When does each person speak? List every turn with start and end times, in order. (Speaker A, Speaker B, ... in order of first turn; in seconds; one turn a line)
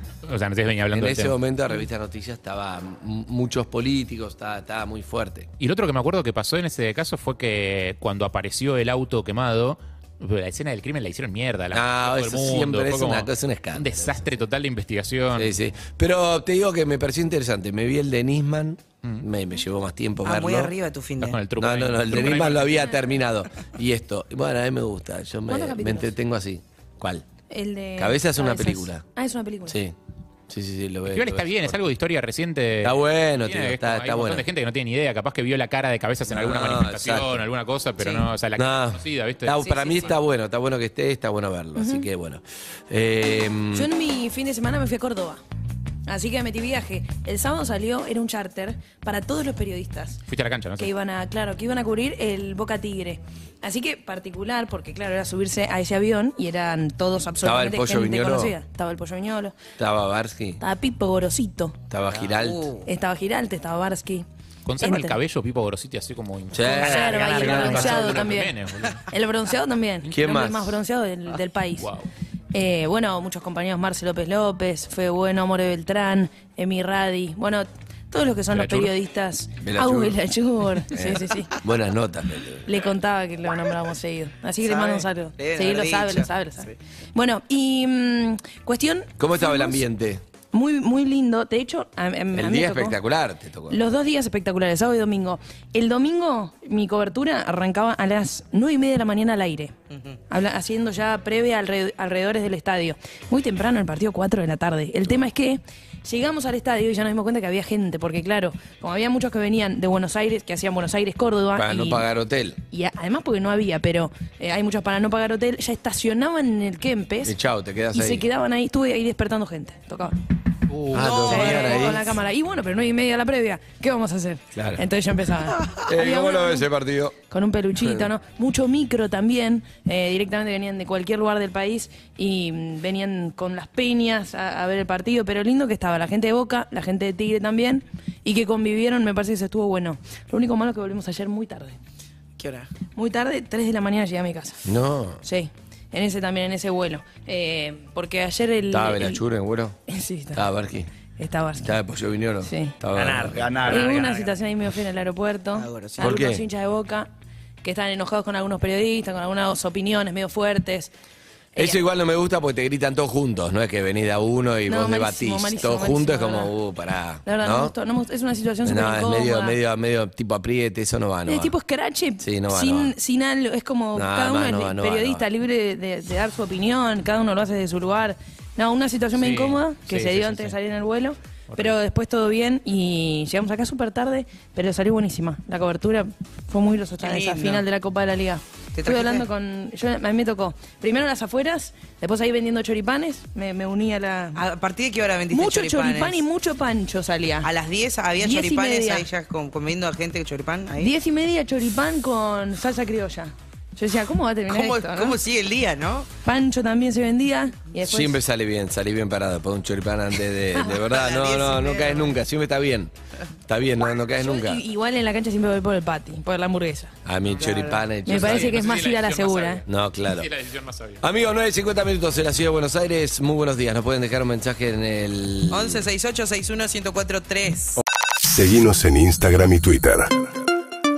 Speaker A: 0.3-1.4
Speaker B: 0.9-5.5
Speaker A: 5.6-15.5
Speaker B: 11.7-14.2
Speaker B: 15.3-20.7
Speaker C: 20.2-21.4
Speaker A: 21.2-22.8
Speaker B: 21.6-27.3
Speaker D: 25.5-26.1
Speaker D: 27.5-29.8
Speaker B: 28.0-29.0
Speaker B: 29.7-29.9
Speaker B: 30.5-31.8
Speaker A: 31.1-40.1
Speaker B: 32.8-34.5
Speaker B: 36.3-37.4
Speaker B: 38.5-43.9
Speaker D: 41.8-42.1
Speaker D: 43.8-45.4
Speaker D: 46.1-50.2
Speaker A: 50.3-50.9
Speaker D: 50.8-59.6
Speaker B: 57.4-58.5
Speaker B: 59.8-60.6
Speaker D: 60.6-61.8
Speaker B: 61.9-62.7
Speaker C: 62.3-62.9
Speaker D: 62.9-64.3
Speaker A: 64.7-69.1
Speaker D: 64.8-65.2
Speaker B: 66.5-68.2
Speaker D: 66.6-71.9
Speaker B: 70.1-70.8
Speaker A: 71.8-72.1
Speaker D: 72.5-81.5
Speaker A: 78.5-78.9
Speaker B: 79.6-80.2
Speaker B: 80.9-82.9
Speaker D: 82.7-89.8
Speaker C: 84.6-86.7
Speaker B: 89.2-90.2
Speaker D: 90.5-93.0
Speaker B: 92.3-93.8
Speaker D: 93.7-99.7
Speaker D: 100.3-112.0
Speaker B: 111.6-112.6
Speaker D: 112.7-117.3
Speaker B: 117.2-118.2
Speaker D: 117.9-120.2
Speaker B: 120.9-122.2
Speaker D: 120.9-126.7
Speaker A: 121.1-121.4
Speaker B: 124.5-124.8
Speaker B: 125.9-127.2
Speaker D: 127.3-141.8
Speaker B: 127.8-128.1
Speaker C: 142.4-142.7
Speaker D: 142.9-144.6
Speaker B: 144.7-145.2
Speaker D: 145.2-149.2
Speaker B: 148.7-149.8
Speaker D: 149.9-150.4
Speaker B: 150.3-150.9
Speaker D: 151.2-151.7
Speaker B: 151.6-154.0
Speaker D: 152.4-152.8
Speaker D: 153.6-157.1
Speaker C: 155.6-156.2
Speaker B: 156.0-156.4
Speaker D: 157.6-160.9
Speaker B: 161.6-167.7
Speaker D: 164.7-166.5
Speaker D: 167.3-169.6
Speaker B: 168.6-171.6
Speaker D: 171.3-194.4
Speaker B: 172.2-172.9
Speaker B: 173.9-175.2
Speaker A: 179.2-180.5
Speaker C: 187.0-187.6
Speaker C: 188.8-189.2
Speaker C: 194.3-196.2
Speaker D: 195.3-197.5
Speaker C: 197.4-200.9
Speaker D: 198.2-199.1
Speaker D: 200.8-205.2
Speaker C: 204.5-206.1
Speaker D: 206.2-208.1
Speaker B: 207.8-212.9
Speaker C: 210.7-212.2
Speaker B: 213.5-214.6
Speaker D: 214.2-216.9
Speaker B: 217.1-218.6
Speaker C: 217.4-217.8
Speaker D: 218.1-219.6
Speaker A: 218.1-221.2
Speaker B: 219.7-220.3
Speaker B: 221.0-225.8
Speaker C: 225.5-227.8
Speaker E: 228.2-230.3